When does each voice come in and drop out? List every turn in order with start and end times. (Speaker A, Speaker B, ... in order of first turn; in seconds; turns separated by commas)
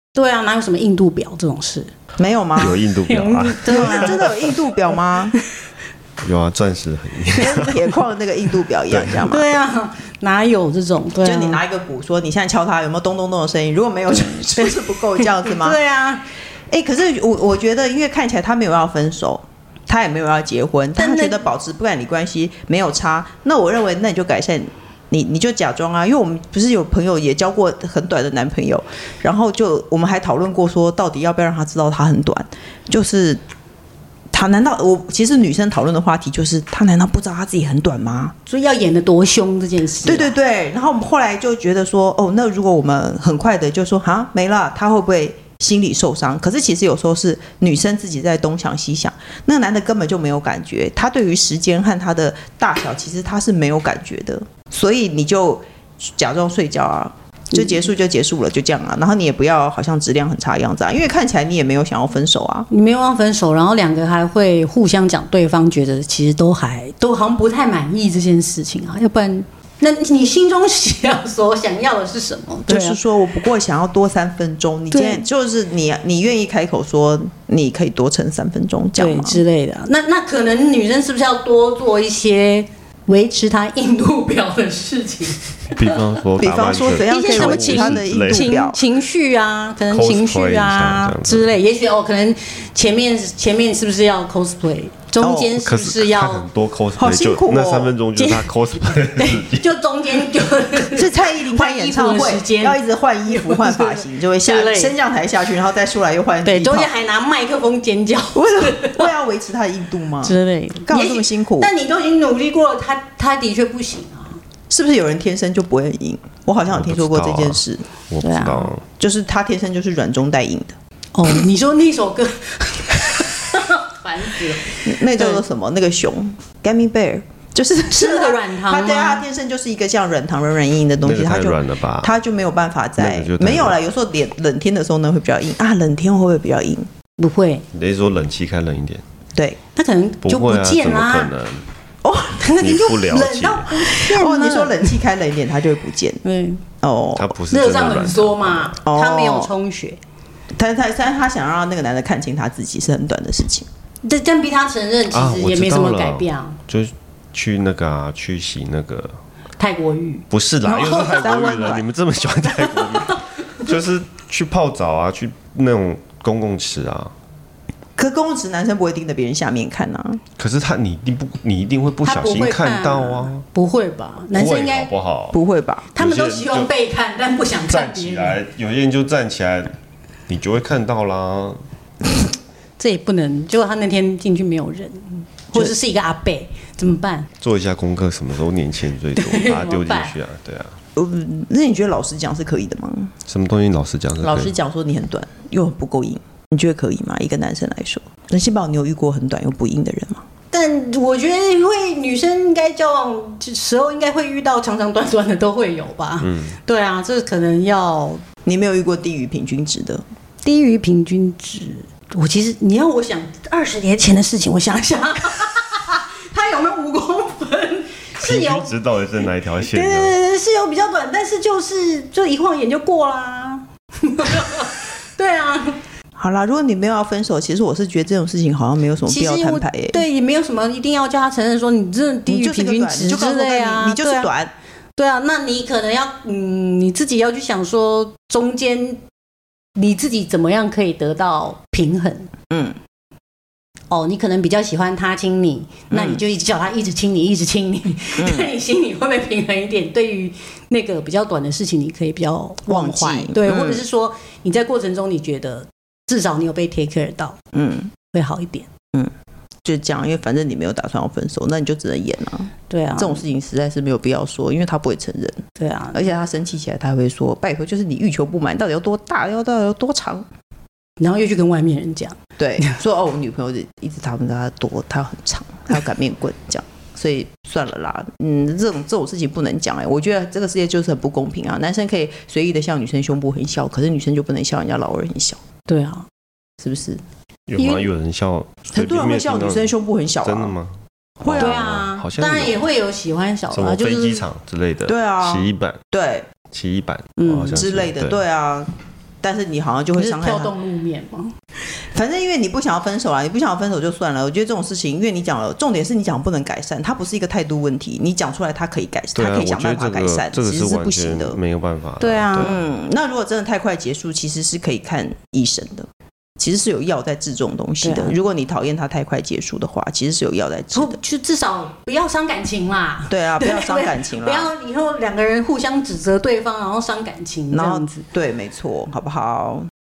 Speaker A: 0.1-1.9, Speaker B: 2.2-2.8, Speaker C: 2.6-4.3, Speaker A: 2.6-4.3, Speaker B: 3.6-5.4, Speaker C: 6.2-7.8, Speaker B: 7.3-9.5, Speaker C: 8.9-9.2, Speaker A: 9.2-11.6, Speaker B: 11.2-15.8, Speaker A: 14.5-16.2, Speaker B: 16.7-33.4, Speaker A: 21.0-21.4, Speaker B: 34.3-38.3, Speaker A: 38.5-40.3, Speaker B: 40.0-62.7, Speaker A: 62.7-73.0, Speaker B: 72.7-79.4, Speaker A: 74.9-75.2, Speaker A: 79.0-85.9, Speaker C: 85.7-88.5, Speaker B: 86.4-88.8, Speaker A: 87.1-96.5, Speaker C: 89.9-91.5, Speaker B: 95.2-95.6, Speaker C: 95.6-99.7, Speaker B: 97.0-98.0, Speaker A: 98.2-104.9, Speaker B: 100.9-106.9, Speaker A: 106.4-109.1, Speaker B: 108.3-111.7, Speaker A: 110.2-114.4, Speaker B: 114.7-117.8, Speaker C: 116.7-118.8, Speaker A: 118.2-118.7, Speaker B: 118.9-120.8, Speaker A: 121.1-125.4, Speaker B: 124.8-136.9, Speaker A: 127.9-129.2, Speaker C: 131.0-132.1, Speaker C: 133.0-133.8, Speaker A: 137.2-137.6, Speaker C: 137.7-139.0, Speaker A: 139.8-141.3, Speaker C: 140.2-141.6, Speaker B: 142.0-142.4, Speaker A: 142.4-144.9, Speaker C: 142.6-143.8, Speaker B: 143.9-146.2, Speaker A: 146.2-146.6, Speaker B: 146.8-147.3, Speaker C: 147.2-148.7, Speaker A: 147.5-150.0, Speaker B: 148.8-149.5, Speaker B: 150.6-153.7, Speaker A: 154.0-156.6, Speaker C: 155.1-159.2, Speaker A: 159.6-161.8, Speaker C: 160.3-167.1, Speaker B: 160.9-161.8, Speaker B: 168.0-170.2, Speaker C: 170.4-173.4, Speaker A: 172.0-174.9, Speaker C: 174.3-175.4, Speaker B: 175.3-175.9, Speaker A: 175.9-178.4, Speaker C: 176.0-176.7, Speaker C: 177.7-179.7, Speaker C: 180.3-181.6, Speaker A: 182.8-187.3, Speaker C: 187.4-190.8, Speaker A: 189.2-190.1, Speaker B: 190.9-193.1, Speaker C: 193.2-194.5, Speaker B: 194.2-200.2, Speaker A: 200.5-208.2, Speaker C: 206.2-206.6, Speaker B: 208.4-210.0, Speaker A: 210.4-218.7, Speaker C: 218.2-220.2, Speaker A: 219.6-225.8, Speaker B: 226.2-230.0, Speaker A: 229.1-234.3, Speaker B: 232.3-234.5, Speaker A: 235.0-239.0, Speaker A: 239.8-242.3, Speaker B: 242.5-242.8, Speaker A: 243.9-257.4, Speaker B: 245.9-246.2, Speaker B: 248.2-248.5, Speaker B: 252.7-253.8, Speaker B: 257.5-257.9, Speaker A: 258.1-258.7, Speaker B: 259.6-270.2, Speaker A: 262.7-263.2, Speaker A: 265.6-266.1, Speaker A: 271.0-272.8, Speaker B: 272.4-285.4, Speaker A: 285.7-286.1, Speaker B: 286.6-287.0, Speaker C: 287.5-292.6, Speaker A: 287.6-287.9, Speaker B: 288.7-290.5, Speaker B: 291.2-291.7, Speaker A: 291.3-294.2, Speaker C: 293.5-295.8, Speaker B: 294.9-296.3, Speaker C: 296.5-298.2, Speaker A: 297.2-297.6, Speaker B: 297.5-300.5, Speaker A: 300.0-301.3, Speaker B: 301.7-311.4, Speaker C: 309.1-312.6, Speaker A: 312.0-312.5, Speaker B: 312.4-315.9, Speaker B: 316.4-321.0, Speaker A: 317.8-318.1, Speaker A: 320.7-328.0, Speaker B: 323.1-324.5, Speaker B: 327.5-329.7